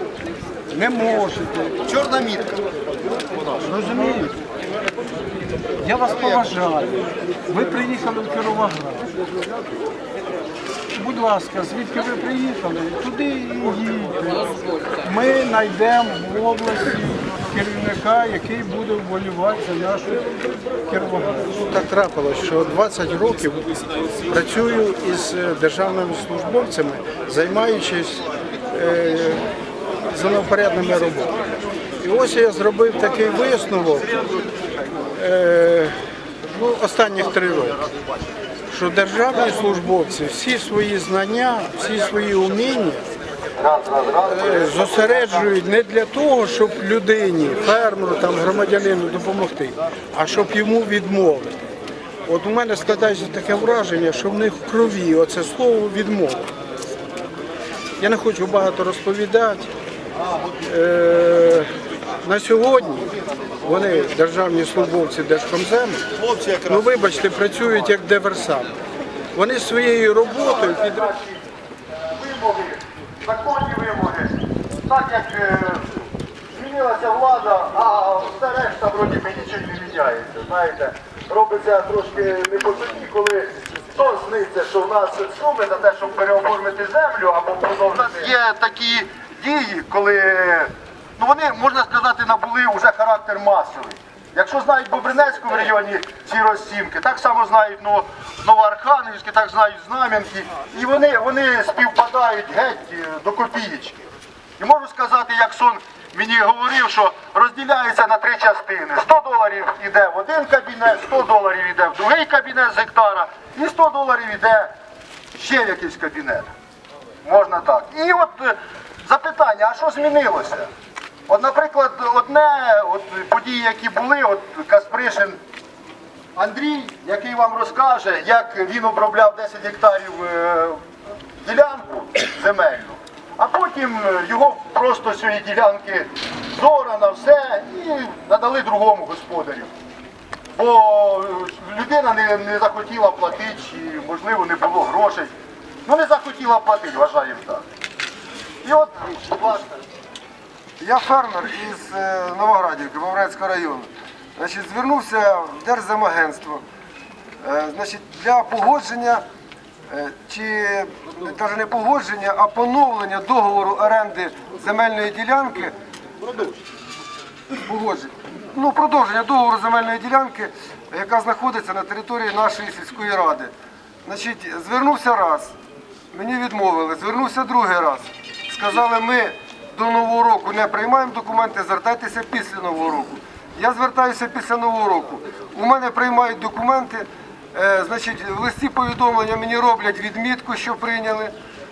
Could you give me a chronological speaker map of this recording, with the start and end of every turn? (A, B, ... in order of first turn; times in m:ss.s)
0:00.7-0:01.8 A
0:01.9-0:02.6 B
0:03.6-0:04.4 A
0:05.8-0:09.1 A
0:10.9-0:23.7 A
0:24.3-0:29.5 A
0:30.1-0:31.3 A
0:32.0-0:34.1 A
0:35.2-0:36.0 A
0:36.5-0:37.8 A
0:38.7-0:43.0 A
0:43.6-0:45.5 B
0:44.2-0:51.5 A
0:52.3-0:56.5 A
0:58.0-0:59.7 A
1:00.7-1:01.7 A
1:02.2-1:03.1 A
1:03.6-1:06.1 A
1:06.2-1:06.6 B
1:06.7-1:08.7 A
1:09.4-1:11.1 A
1:10.4-1:11.4 B
1:12.1-1:15.8 B
1:16.5-1:44.0 B
1:44.6-1:54.7 B
1:55.3-1:56.5 B
1:57.2-2:00.7 B
2:01.3-2:05.4 B
2:06.4-2:10.8 B
2:11.4-2:19.7 B
2:20.6-2:25.3 B
2:25.8-2:27.7 B
2:28.6-2:29.8 B
2:30.8-2:36.6 C
2:37.4-2:39.2 C
2:39.9-2:45.8 C
2:47.6-2:53.5 C
2:54.0-2:55.5 C
2:56.1-3:11.4 C